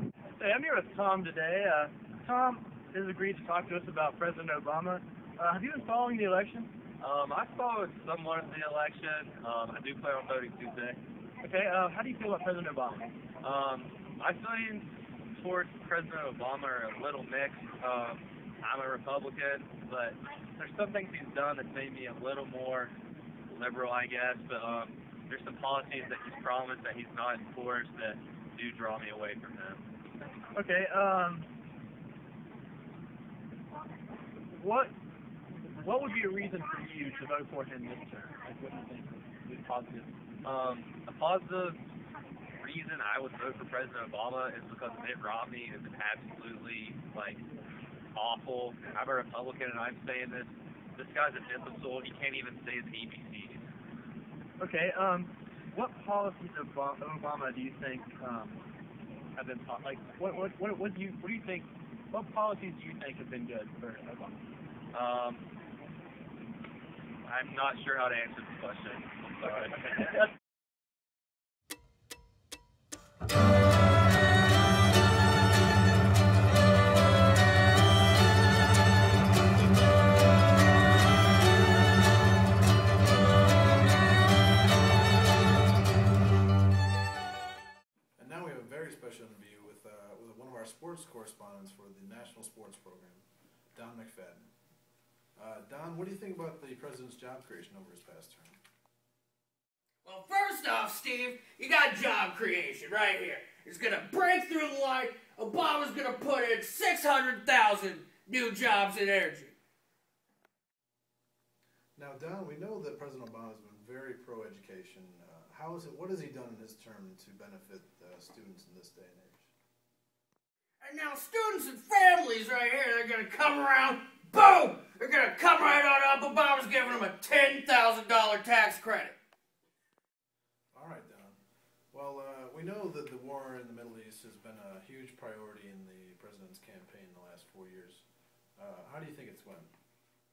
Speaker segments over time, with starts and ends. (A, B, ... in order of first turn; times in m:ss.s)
0:00.4-0:06.7 A
0:07.0-0:11.0 B
0:11.4-0:13.1 A
0:13.4-0:22.9 B
0:23.5-0:29.9 B
0:30.5-0:31.5 A
0:34.5-0:34.9 A
0:35.6-0:40.1 A
0:40.4-0:41.8 B
0:42.6-0:47.4 B
0:48.2-0:53.7 B
0:54.6-0:58.6 A
0:59.4-1:04.4 A
1:04.9-1:05.4 B
1:07.2-1:10.2 B
1:28.2-1:34.5 C
1:35.4-1:38.6 C
1:40.0-1:49.5 D
1:52.0-1:59.5 C
2:00.8-2:09.1 D
2:10.7-2:11.4 C
2:11.9-2:18.1 C
2:18.6-2:19.7 C